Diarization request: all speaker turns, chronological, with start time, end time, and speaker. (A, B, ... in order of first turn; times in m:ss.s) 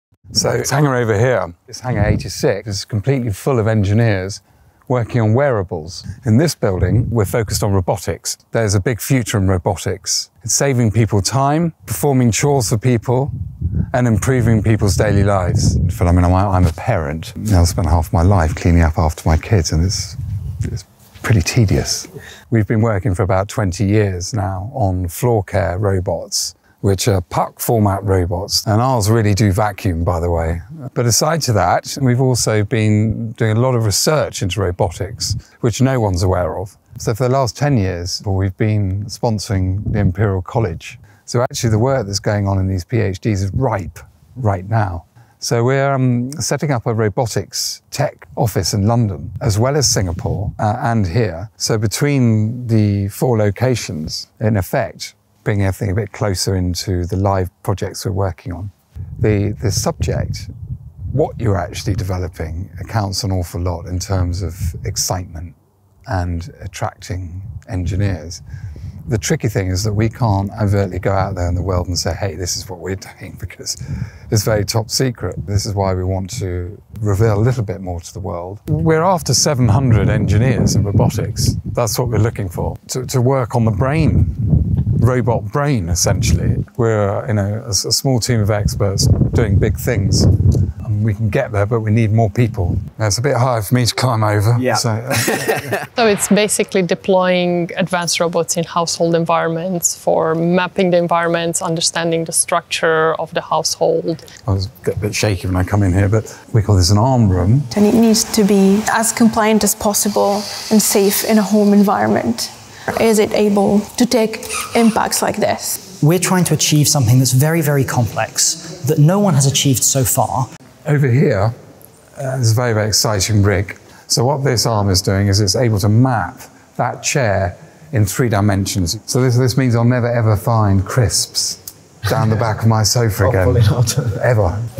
0:00.3-0:13.3 A
0:13.9-1:00.5 A
1:01.1-1:05.6 A
1:06.1-1:08.4 A
1:09.0-1:35.8 A
1:36.0-1:44.2 B
1:44.4-1:47.7 A
1:47.7-1:55.9 C
1:56.0-2:00.5 D
2:00.8-2:01.5 A
2:02.2-2:14.6 A